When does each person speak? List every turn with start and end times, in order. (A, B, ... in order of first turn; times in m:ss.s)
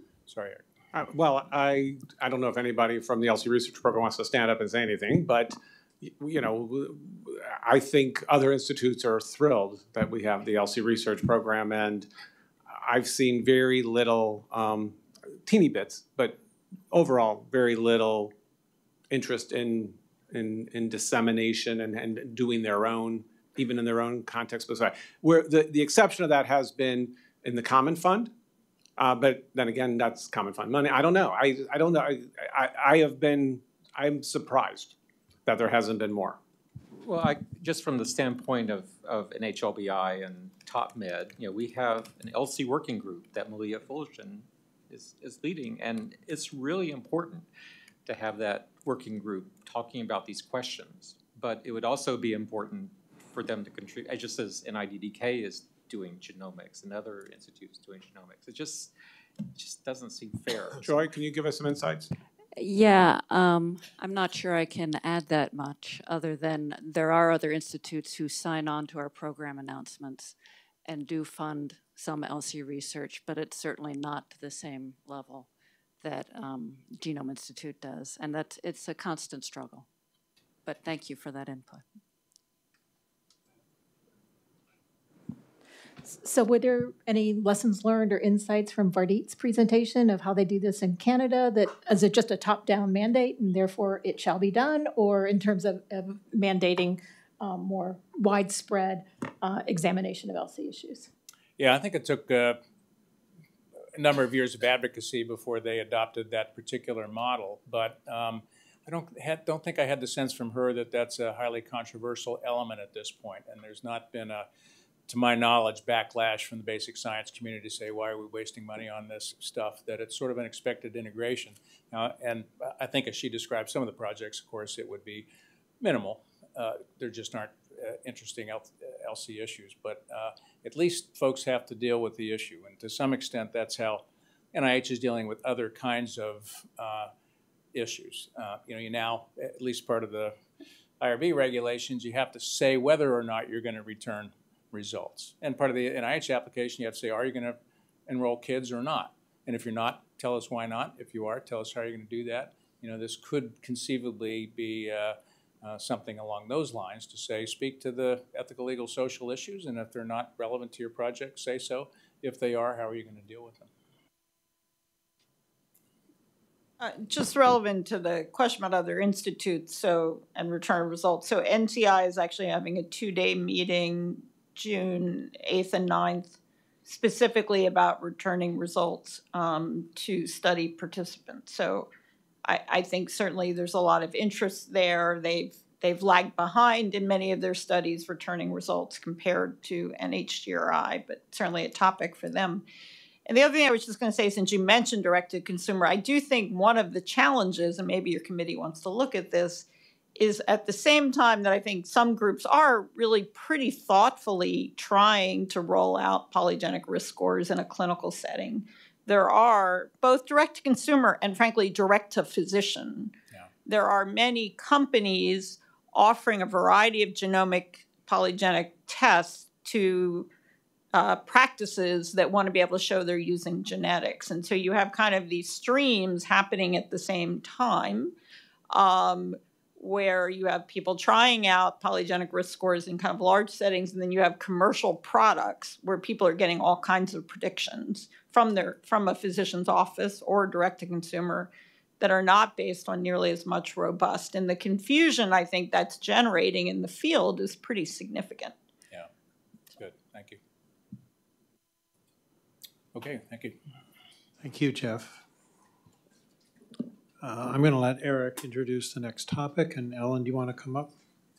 0:00.3-0:00.6 A
0:00.9-0:12.1 B
0:12.7-0:16.4 B
0:16.9-0:18.3 B
0:19.1-0:28.3 B
0:29.0-0:35.0 B
0:35.5-0:36.4 B
0:37.0-0:47.5 C
0:48.1-0:58.9 C
0:59.5-1:01.0 C
1:00.8-1:02.1 B
1:02.6-1:10.4 D
1:10.9-1:15.5 D
1:16.0-1:19.9 D
1:20.6-1:21.8 D
1:26.0-1:41.1 E
1:41.6-1:42.6 A
1:44.0-1:54.5 A
1:55.1-2:05.3 A
2:05.8-2:17.1 A
2:17.7-2:20.4 A
2:21.0-2:43.7 A
2:46.8-2:56.4 F
2:56.9-3:01.9 F
3:02.4-3:12.6 F
3:13.3-3:33.1 F
3:33.7-3:40.3 F
3:40.9-3:48.1 F
3:48.7-4:08.5 F
4:09.7-4:10.4 A
4:12.9-4:13.6 A
4:14.4-4:15.2 G
4:17.2-4:20.9 G